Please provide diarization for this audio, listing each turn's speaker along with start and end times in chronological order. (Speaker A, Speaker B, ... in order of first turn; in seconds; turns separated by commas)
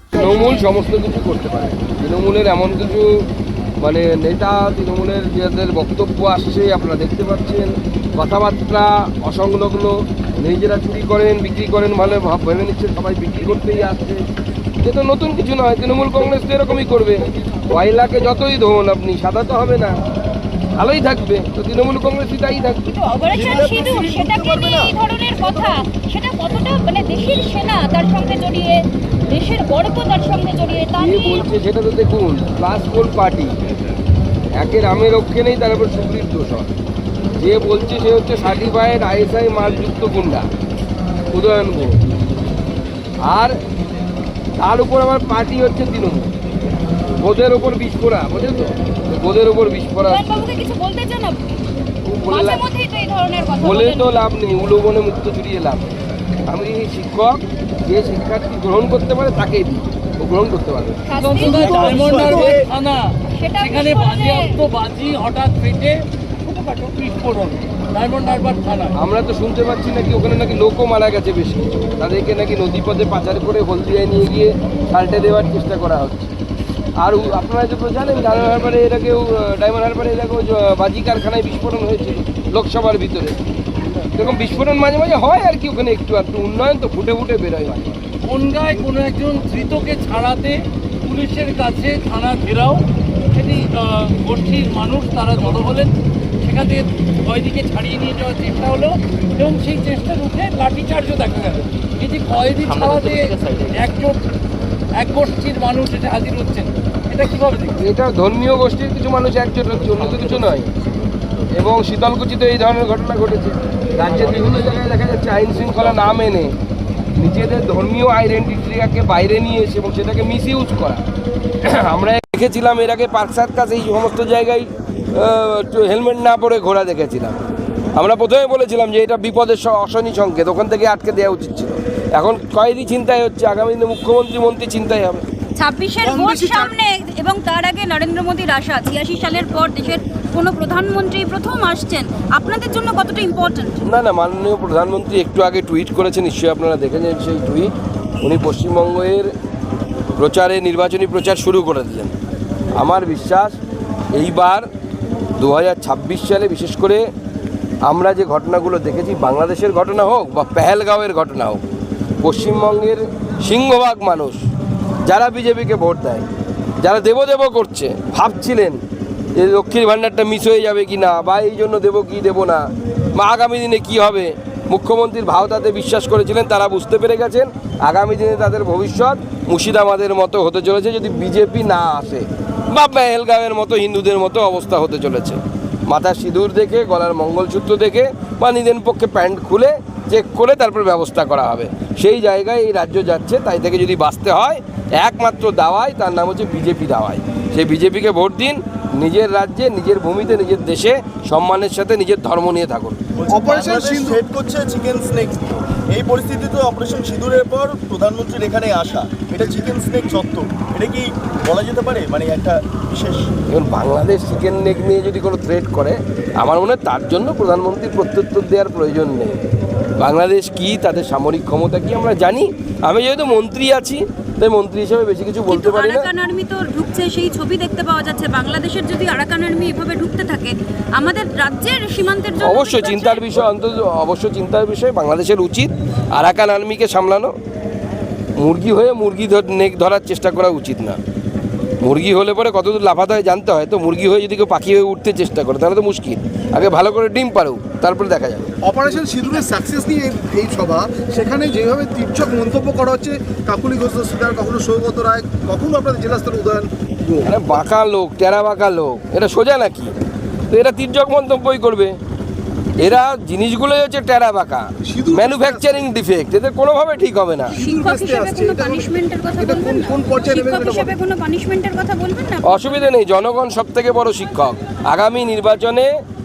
Speaker A: 0.1-3.2, Speaker A: 3.8-14.2, Speaker A: 14.8-19.9, Speaker A: 20.8-22.8, Speaker B: 22.8-31.5, Speaker C: 23.3-24.9, Speaker A: 30.9-33.5, Speaker A: 34.5-36.7, Speaker A: 37.4-40.4, Speaker A: 41.3-42.0, Speaker A: 43.2-43.5, Speaker A: 44.6-46.3, Speaker A: 47.2-50.4, Speaker B: 50.0-51.6, Speaker A: 52.1-52.6, Speaker B: 52.3-54.1, Speaker A: 53.6-55.9, Speaker A: 56.5-61.0, Speaker B: 61.1-62.1, Speaker D: 61.2-68.9, Speaker C: 61.4-62.7, Speaker B: 63.4-64.6, Speaker A: 68.9-76.3, Speaker A: 77.0-83.4, Speaker A: 84.1-88.0, Speaker D: 88.2-104.2, Speaker D: 104.9-107.8, Speaker A: 107.8-110.7, Speaker A: 111.5-116.5, Speaker A: 117.1-121.0, Speaker A: 121.7-127.4, Speaker A: 128.0-135.2, Speaker B: 135.6-143.8, Speaker E: 136.0-136.7, Speaker A: 143.8-149.3, Speaker A: 150.2-152.1, Speaker A: 152.7-153.6, Speaker A: 154.1-154.7, Speaker A: 155.4-157.0, Speaker A: 157.8-161.6, Speaker A: 162.2-164.4, Speaker A: 165.0-166.2, Speaker A: 166.8-168.8, Speaker A: 169.3-172.6, Speaker A: 173.1-203.0, Speaker C: 203.1-213.3, Speaker E: 203.3-204.3, Speaker A: 213.5-219.4, Speaker A: 220.0-226.1, Speaker B: 225.5-233.4, Speaker A: 232.4-237.3, Speaker A: 238.4-241.0, Speaker A: 241.8-249.0, Speaker E: 248.6-257.6, Speaker A: 257.2-261.9, Speaker A: 262.8-267.5, Speaker E: 264.9-265.9, Speaker E: 267.5-270.9, Speaker B: 267.6-272.9, Speaker A: 272.4-275.9